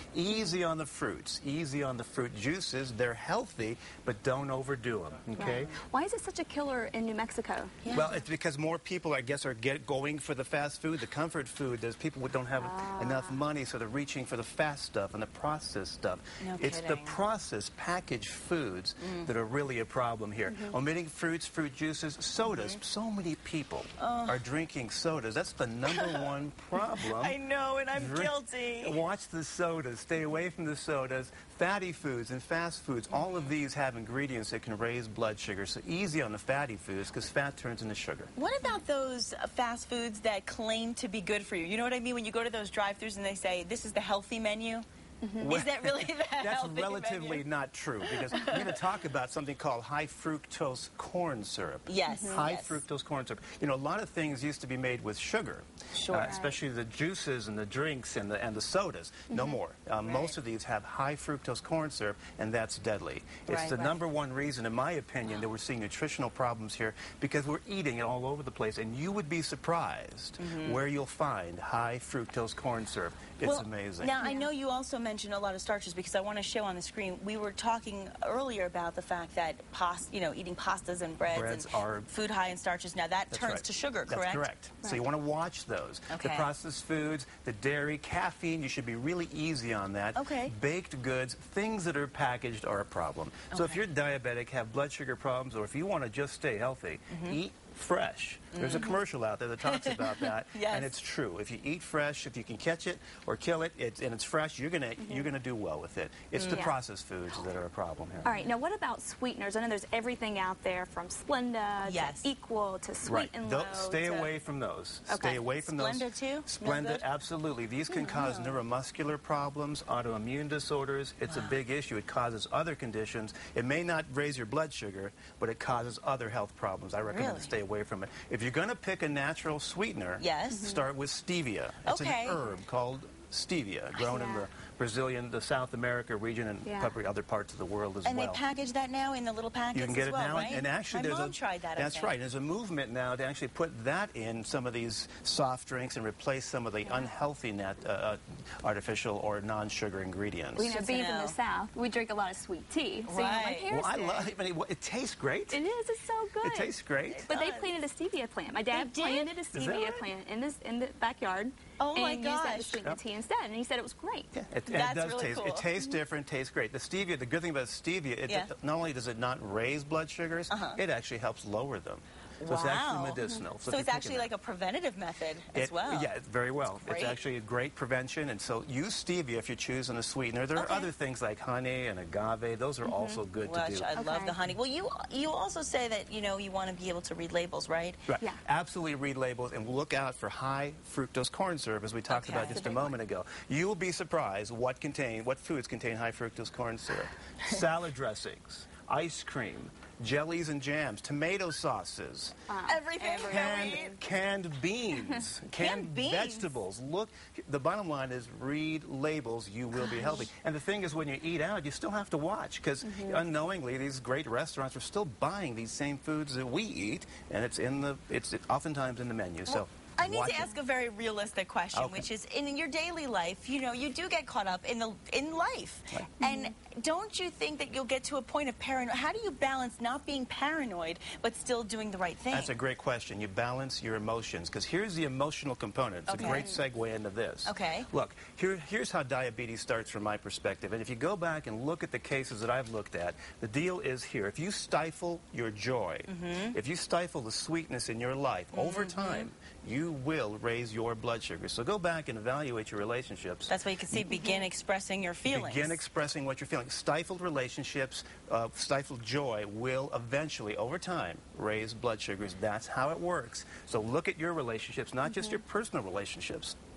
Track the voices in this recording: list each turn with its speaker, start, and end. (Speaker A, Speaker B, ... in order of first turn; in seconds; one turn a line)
Speaker A: 0.1-5.7
Speaker B: 5.3-7.8
Speaker C: 7.8-8.2
Speaker A: 7.9-27.4
Speaker B: 12.6-13.4
Speaker C: 16.4-17.2
Speaker C: 19.0-19.3
Speaker B: 20.4-20.8
Speaker C: 22.4-22.8
Speaker C: 24.0-24.4
Speaker C: 25.9-29.0
Speaker A: 27.9-38.3
Speaker C: 33.1-33.5
Speaker C: 38.4-44.9
Speaker B: 45.2-45.5
Speaker A: 45.4-74.2
Speaker C: 45.4-47.5
Speaker C: 48.0-48.8
Speaker C: 51.9-52.8
Speaker B: 52.1-52.5
Speaker C: 55.9-56.4
Speaker B: 56.2-56.6
Speaker B: 59.3-59.6
Speaker C: 60.0-60.4
Speaker C: 63.5-64.0
Speaker C: 70.4-70.8
Speaker C: 73.4-84.5
Speaker B: 74.2-74.5
Speaker A: 81.3-82.1
Speaker A: 83.3-108.4
Speaker C: 86.1-86.5
Speaker C: 90.2-90.5
Speaker C: 93.5-93.8
Speaker C: 97.1-97.4
Speaker C: 98.5-99.0
Speaker C: 99.6-100.9
Speaker B: 105.0-105.3
Speaker C: 106.3-106.7
Speaker B: 106.5-106.7
Speaker B: 108.2-114.2
Speaker C: 111.8-112.3
Speaker A: 113.1-138.4
Speaker B: 115.1-115.5
Speaker C: 115.7-117.0
Speaker C: 117.9-118.6
Speaker C: 121.3-121.6
Speaker C: 127.1-127.5
Speaker C: 130.2-130.8
Speaker B: 130.5-130.8
Speaker C: 131.9-132.5
Speaker B: 134.1-134.4
Speaker B: 136.7-137.0
Speaker C: 138.1-142.2
Speaker A: 139.7-150.7
Speaker B: 146.8-147.1
Speaker B: 150.6-154.3
Speaker C: 150.7-151.4
Speaker C: 153.1-153.9
Speaker A: 153.7-155.6
Speaker B: 155.5-156.7
Speaker A: 156.4-157.3
Speaker C: 157.1-157.7
Speaker B: 157.3-164.3
Speaker C: 158.7-159.3
Speaker A: 159.5-160.1
Speaker C: 161.8-162.8
Speaker A: 164.3-174.3
Speaker C: 164.7-165.7
Speaker C: 170.5-170.8
Speaker C: 172.4-176.1
Speaker A: 175.6-183.9
Speaker C: 176.8-177.2
Speaker C: 180.6-180.9
Speaker B: 182.8-183.2
Speaker C: 183.4-188.1
Speaker B: 183.9-184.4
Speaker A: 188.1-202.4
Speaker C: 192.1-192.9
Speaker B: 192.3-192.8
Speaker B: 202.5-204.0
Speaker C: 202.7-204.0
Speaker A: 203.2-220.5
Speaker B: 205.0-205.3
Speaker C: 205.6-206.6
Speaker B: 209.8-210.3
Speaker B: 212.8-213.2
Speaker C: 219.5-232.5
Speaker A: 221.7-222.1
Speaker B: 226.2-226.5
Speaker A: 232.3-254.2
Speaker C: 236.1-236.5
Speaker B: 236.2-236.6
Speaker C: 237.4-237.9
Speaker C: 246.1-246.6
Speaker C: 248.5-249.3
Speaker C: 253.5-255.8
Speaker A: 255.3-266.6
Speaker B: 265.1-265.4